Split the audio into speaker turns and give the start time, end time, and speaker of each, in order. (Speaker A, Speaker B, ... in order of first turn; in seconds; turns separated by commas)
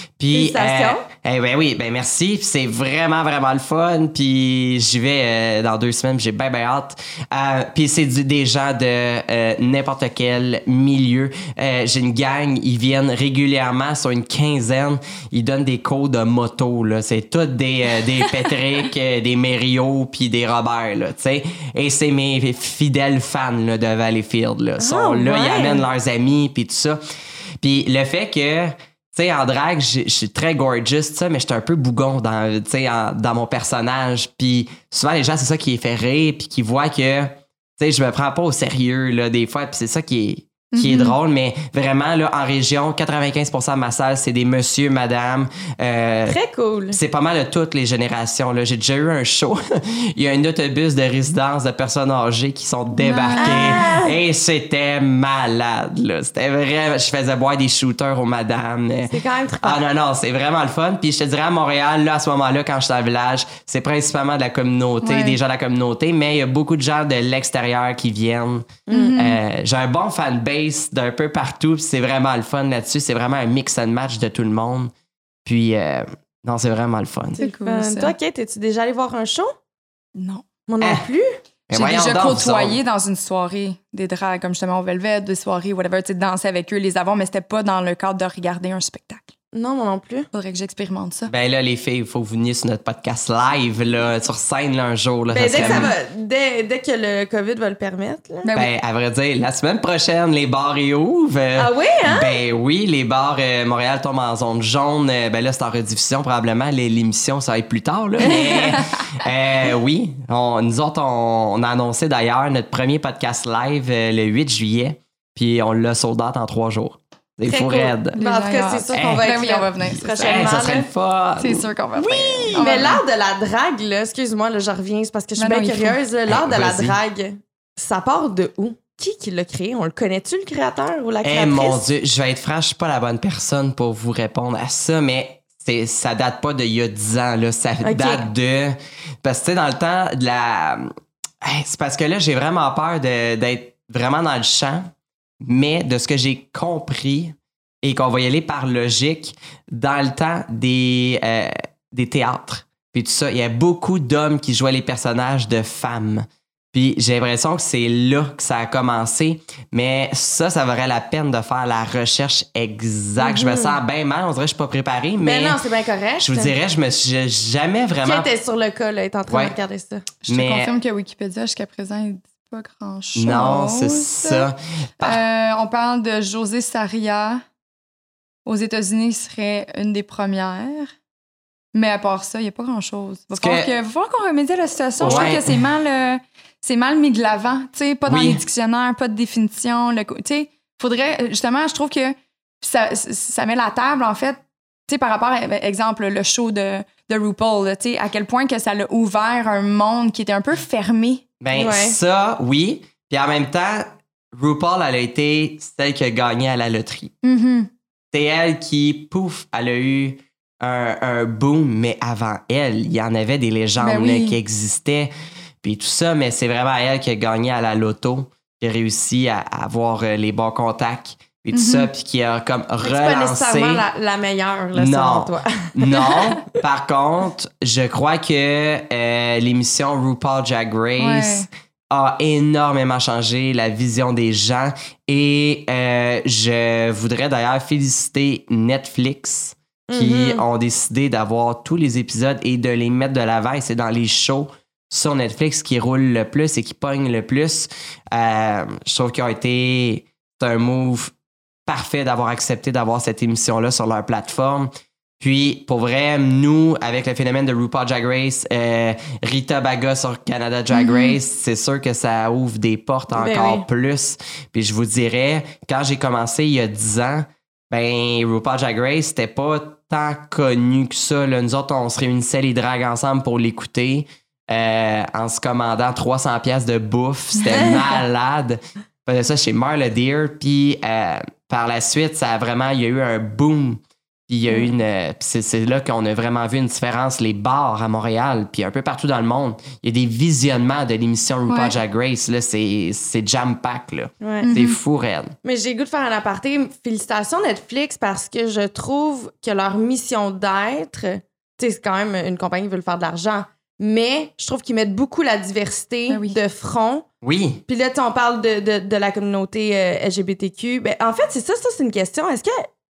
Speaker A: 0.2-27.0, Speaker B: 0.3-1.0, Speaker B: 24.8-25.8, Speaker A: 27.6-46.4, Speaker C: 40.7-41.1, Speaker B: 46.3-47.0, Speaker A: 46.9-74.9, Speaker C: 52.9-53.6, Speaker B: 53.4-54.1, Speaker B: 59.1-59.8, Speaker C: 65.0-65.4, Speaker B: 68.9-69.3, Speaker C: 68.9-69.3, Speaker A: 75.4-77.4, Speaker B: 77.4-79.5, Speaker C: 77.4-78.1, Speaker C: 80.2-80.4, Speaker B: 80.7-81.3, Speaker A: 81.7-82.8, Speaker C: 81.7-89.3, Speaker B: 89.5-90.3, Speaker C: 90.3-91.3, Speaker A: 91.3-95.9, Speaker B: 95.3-98.5, Speaker C: 98.4-98.7, Speaker A: 98.5-118.2, Speaker B: 101.6-102.3, Speaker B: 117.5-120.9, Speaker C: 118.1-120.5, Speaker A: 118.9-119.3, Speaker A: 120.2-123.0, Speaker C: 121.4-123.0, Speaker B: 122.5-131.8, Speaker C: 125.4-126.0, Speaker A: 126.3-127.0, Speaker A: 131.2-140.9, Speaker B: 137.8-138.2, Speaker A: 141.4-165.6, Speaker B: 163.2-163.8, Speaker B: 165.2-166.5, Speaker A: 166.2-168.3, Speaker B: 168.0-170.1, Speaker A: 169.3-169.5, Speaker C: 170.2-174.5, Speaker A: 170.3-170.7, Speaker A: 173.2-175.2, Speaker C: 175.0-177.4, Speaker C: 178.4-180.9, Speaker C: 181.7-201.2, Speaker A: 183.4-183.7, Speaker A: 185.0-185.6, Speaker A: 188.1-188.4, Speaker A: 201.4-207.1, Speaker B: 201.5-202.0, Speaker C: 207.2-207.7, Speaker A: 208.1-215.1, Speaker C: 213.8-214.4, Speaker A: 215.6-223.8, Speaker C: 221.5-221.9, Speaker B: 222.8-225.8, Speaker A: 224.7-251.1, Speaker C: 225.9-226.4, Speaker C: 231.0-231.5, Speaker B: 239.9-240.4, Speaker A: 251.7-295.3, Speaker C: 260.7-261.2, Speaker B: 263.1-263.6, Speaker C: 291.5-291.7, Speaker B: 294.2-294.5, Speaker C: 294.4-294.8, Speaker B: 295.4-307.0, Speaker C: 306.1-306.4, Speaker A: 307.2-307.6, Speaker B: 307.7-312.7